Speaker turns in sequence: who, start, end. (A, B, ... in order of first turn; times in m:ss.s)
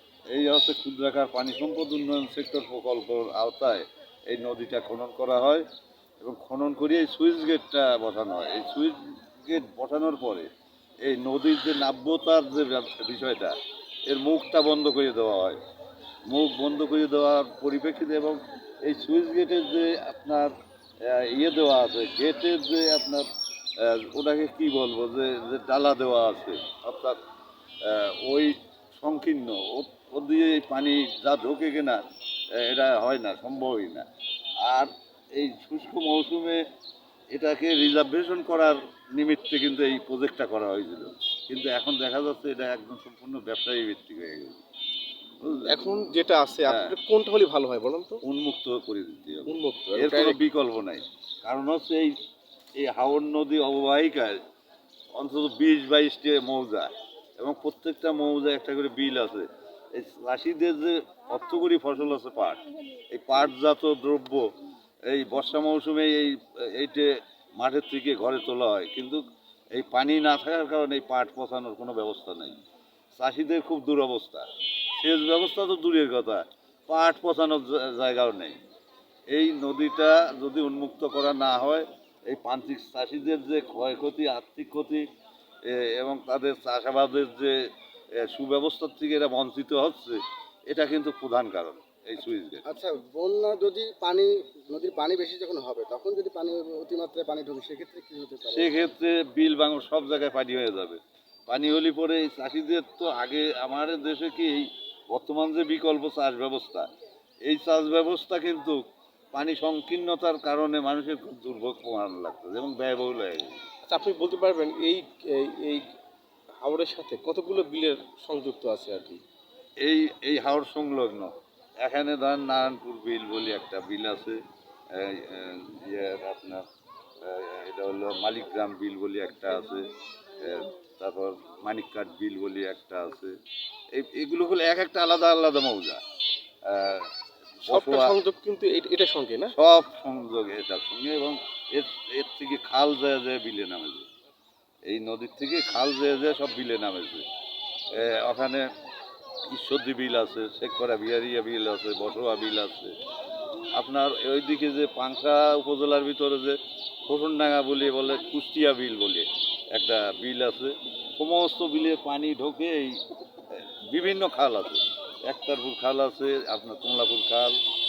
0:00.3-0:05.6 A
0:06.2-0:10.5 A
0:11.0-0:13.5 A
0:14.1-0:15.6 A
0:16.3-0:23.3 A
0:23.8-0:27.2 A
0:27.8-0:32.0 A
0:32.6-0:34.0 A
0:34.6-0:36.6 A
0:37.3-0:44.6 A
0:45.4-0:46.1 A
0:45.6-0:48.2 B
0:46.6-0:47.0 A
0:48.2-0:52.1 A
0:49.5-0:50.4 B
0:52.8-0:54.4 A
0:55.1-1:02.6 A
1:03.1-1:04.5 A
1:05.1-1:09.2 A
1:09.7-1:12.6 A
1:13.2-1:18.6 A
1:19.3-1:25.1 A
1:25.6-1:27.6 A
1:28.2-1:32.6 A
1:32.6-1:38.7 C
1:38.5-1:46.9 A
1:47.4-1:53.6 A
1:53.9-1:55.9 B
1:56.6-1:59.2 B
1:59.8-2:04.4 A
2:04.9-2:06.6 A
2:07.2-2:13.3 A
2:13.9-2:16.0 A
2:16.6-2:18.2 A
2:17.7-2:19.5 B
2:19.5-2:24.1 A
2:24.8-2:27.2 A
2:27.9-2:28.7 A
2:29.5-2:33.0 A
2:33.7-2:43.0 A
2:43.9-2:47.6 A